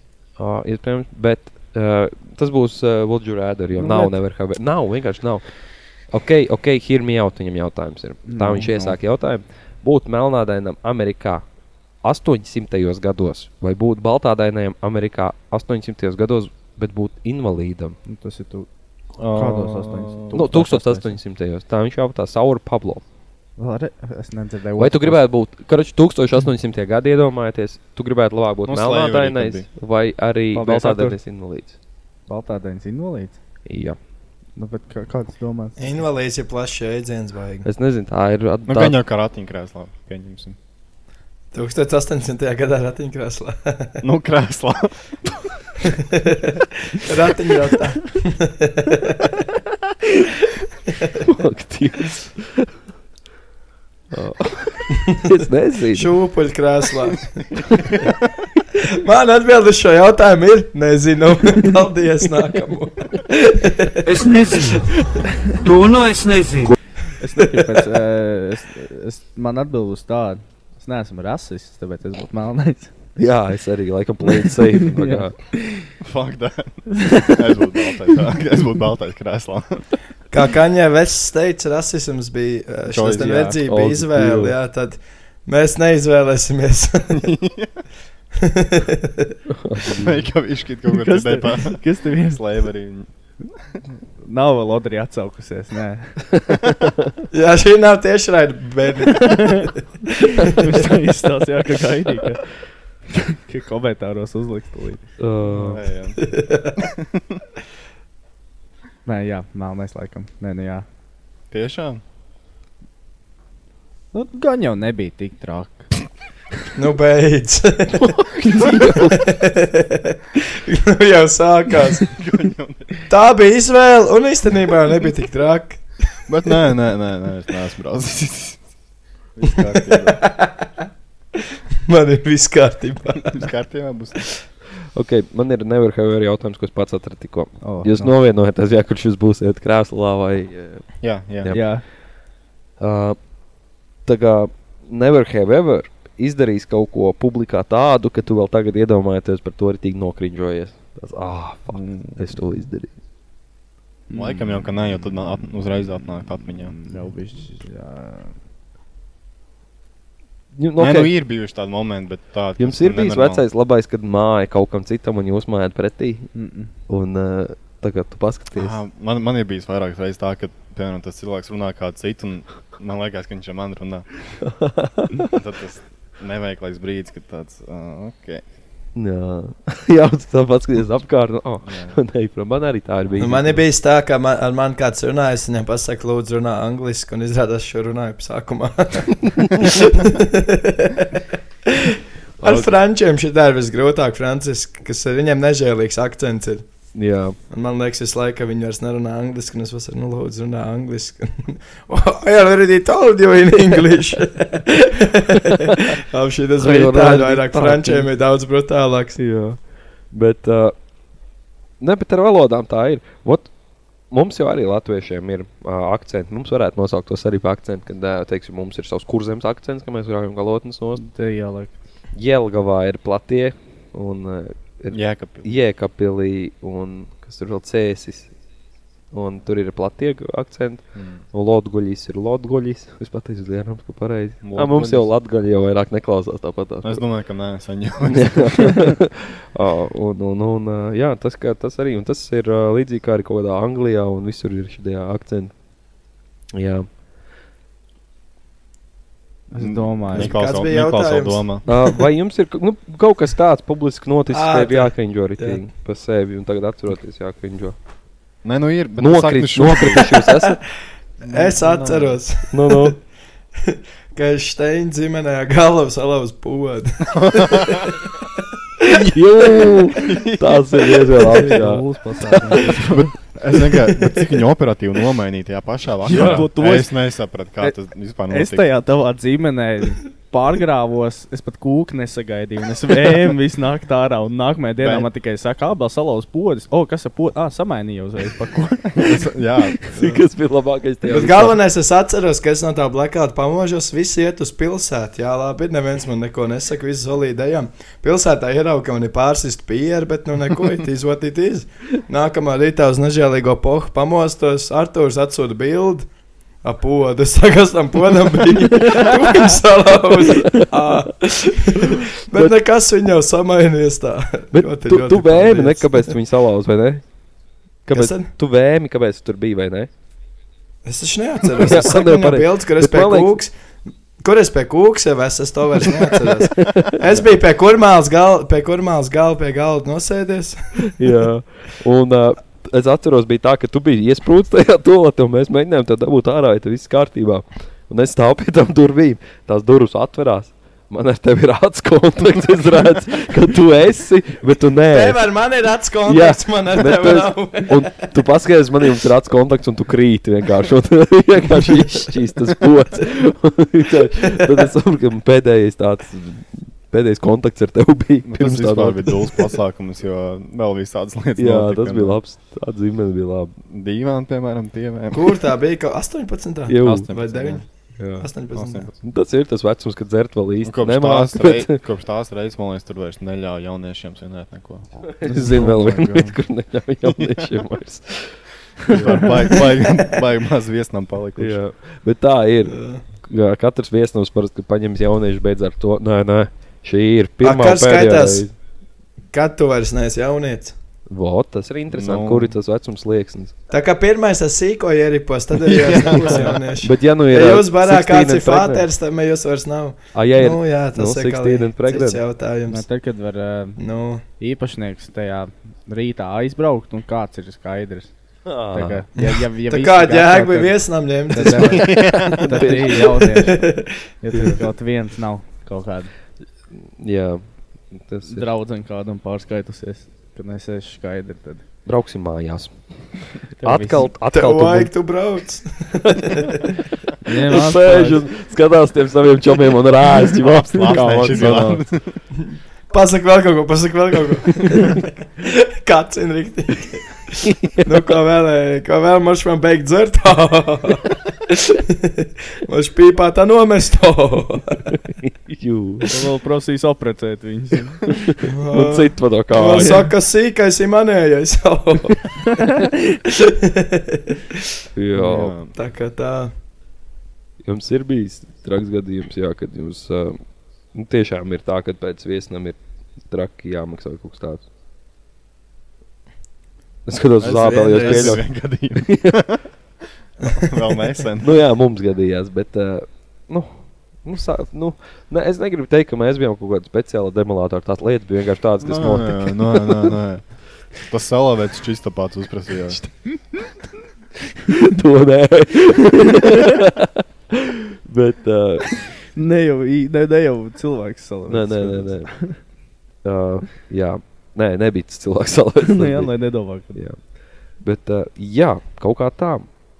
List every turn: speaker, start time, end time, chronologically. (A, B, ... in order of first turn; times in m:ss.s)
0:00.4-0:11.4 A
0:03.7-0:04.2 B
0:08.3-0:09.0 B
0:12.0-0:18.0 A
0:18.0-0:18.7 B
0:19.2-0:20.6 C
0:19.3-0:21.1 B
0:20.3-0:23.0 A
0:23.6-0:25.2 B
0:24.8-0:31.8 A
0:28.6-0:29.7 C
0:30.5-0:31.2 B
0:32.3-0:33.4 B
0:33.6-0:34.0 A
0:34.6-0:35.9 B
0:35.8-0:37.7 D
0:37.6-0:39.0 A
0:38.6-0:40.6 C
0:41.5-0:44.0 D
0:44.0-0:45.0 C
0:45.9-0:49.3 D
0:51.2-0:52.7 A
0:54.1-0:56.1 A
0:55.9-0:57.5 D
0:58.8-1:04.1 D
1:04.1-1:04.9 E
1:05.6-1:06.8 E
1:07.2-1:12.9 B
1:13.2-1:15.3 A
1:14.2-1:15.9 B
1:16.0-1:19.8 C
1:20.3-1:27.2 D
1:22.9-1:23.6 C
1:23.7-1:24.5 A
1:27.1-1:27.8 C
1:28.4-1:29.3 D
1:29.5-1:30.2 A
1:29.9-1:33.1 C
1:30.9-1:32.4 B
1:34.2-1:36.3 B
1:37.3-1:39.6 D
1:39.1-1:39.7 B
1:40.4-1:42.4 B
1:43.1-1:45.1 B
1:45.2-1:45.8 A
1:45.4-1:47.4 C
1:46.2-1:46.8 D
1:49.0-1:50.8 B
1:51.5-1:52.0 C
1:54.1-1:55.9 B
1:56.7-1:58.1 D
1:58.0-1:59.2 A
1:59.2-2:02.1 D
2:02.1-2:03.0 C
2:03.1-2:05.8 D
2:06.3-2:08.6 C
2:09.3-2:10.2 C
2:09.4-2:10.6 D
2:11.9-2:13.4 D
2:13.3-2:14.2 C
2:15.0-2:20.8 A
2:17.6-2:18.1 B
2:21.0-2:21.5 C
2:21.4-2:21.6 A
2:21.5-2:21.8 B
2:22.8-2:23.2 A
2:24.0-2:32.9 A
2:31.7-2:32.2 C
2:34.1-2:34.6 B
2:34.1-2:36.8 C
2:36.7-2:38.3 B
2:40.5-2:41.1 A
2:40.8-2:43.4 C
2:42.6-2:46.3 A
2:46.3-2:46.7 B
2:46.9-2:48.8 A
2:48.5-2:54.1 C
2:54.4-2:55.3 A
2:55.3-2:58.4 C
2:59.0-3:03.6 A
3:01.6-3:02.0 C
3:03.2-3:11.1 D
3:11.7-3:16.6 D
3:16.9-3:17.4 A
3:17.5-3:29.2 D
3:26.6-3:28.1 A
3:29.2-3:30.7 A
3:31.8-3:33.5 A
3:34.1-3:41.0 A
3:41.0-3:41.7 B
3:42.1-3:48.3 A
3:44.9-3:45.5 C
3:49.1-3:57.0 A
3:50.9-3:51.2 C
3:54.4-3:55.1 C
3:56.8-3:58.8 C
3:58.1-4:05.5 A
4:06.5-4:06.9 A
4:09.5-4:10.3 B
4:09.5-4:11.6 C
4:10.2-4:11.8 D
4:11.6-4:17.7 A
4:14.3-4:15.6 D
4:18.4-4:20.2 C
4:19.0-4:20.6 A
4:21.2-4:22.2 C
4:21.3-4:22.9 D
4:22.5-4:23.0 A
4:23.7-4:27.9 D
4:27.1-4:28.0 C
4:28.9-4:32.8 A
4:30.0-4:30.9 C
4:31.2-4:33.1 B
4:32.7-4:38.7 C
4:36.0-4:36.9 B
4:36.1-4:36.5 A
4:38.3-4:49.2 B
4:44.8-4:45.1 C
4:48.9-4:49.8 C
4:49.9-4:51.6 A
4:51.1-5:06.1 D
5:06.6-5:16.1 D
5:08.8-5:09.5 A
5:10.2-5:10.7 A
5:11.8-5:12.5 A
5:14.5-5:17.0 A
5:17.8-5:19.9 A
5:17.9-5:18.3 D
5:20.8-5:23.5 D
5:21.6-5:23.4 A
5:24.2-5:30.8 D
5:26.1-5:26.9 A
5:31.0-5:45.2 A
5:44.9-5:48.0 D
5:46.1-5:59.2 A
5:58.2-6:02.2 C
6:01.4-6:03.5 A
6:03.6-6:05.4 C
6:05.1-6:07.6 D
6:06.7-6:07.1 A
6:06.8-6:07.6 C
6:08.0-6:08.3 A
6:08.2-6:08.9 D
6:08.5-6:08.9 C
6:09.0-6:11.8 A
6:10.6-6:16.4 C
6:15.2-6:18.4 A
6:17.0-6:17.4 C
6:18.9-6:21.6 C
6:21.4-6:28.5 A
6:22.7-6:23.0 D
6:27.4-6:28.4 D
6:29.3-6:30.7 D
6:31.1-6:33.5 A
6:31.9-6:32.6 C
6:33.7-6:42.8 D
6:35.7-6:36.6 C
6:36.8-6:38.9 A
6:40.1-6:42.2 A
6:42.7-6:43.8 B
6:43.8-6:44.2 D
6:44.4-6:48.1 B
6:48.4-6:49.0 A
6:48.7-6:56.1 B
6:49.2-6:52.1 D
6:51.5-6:52.8 C
6:52.2-6:53.1 A
6:53.3-6:53.9 D
6:57.0-6:58.5 A
6:58.3-7:01.6 B
7:01.8-7:02.7 A
7:03.6-7:04.0 B
7:03.6-7:04.9 A
7:04.3-7:06.7 D
7:07.2-7:08.2 B
7:07.5-7:11.8 A
7:10.4-7:12.2 C
7:11.2-7:11.6 B
7:12.9-7:24.8 D
7:17.4-7:17.9 A
7:24.9-7:26.0 A
7:26.1-7:28.1 B
7:28.4-7:32.2 D
7:28.7-7:30.0 A
7:33.3-7:34.4 D
7:35.0-7:35.5 A
7:35.1-7:35.7 C
7:35.7-7:36.5 D
7:37.6-7:40.4 A
7:40.9-7:42.8 A
7:43.3-7:44.6 A
7:47.1-7:48.4 A
7:47.4-7:49.6 C
7:47.8-7:48.4 D
7:50.4-7:51.6 C
7:50.4-7:51.1 D
7:51.4-8:00.1 A
7:58.8-8:00.4 C
8:00.9-8:03.0 C
8:04.7-8:08.9 A
8:09.3-8:12.6 B
8:11.5-8:12.4 A
8:13.2-8:16.3 A
8:15.8-8:17.0 B
8:17.8-8:19.6 A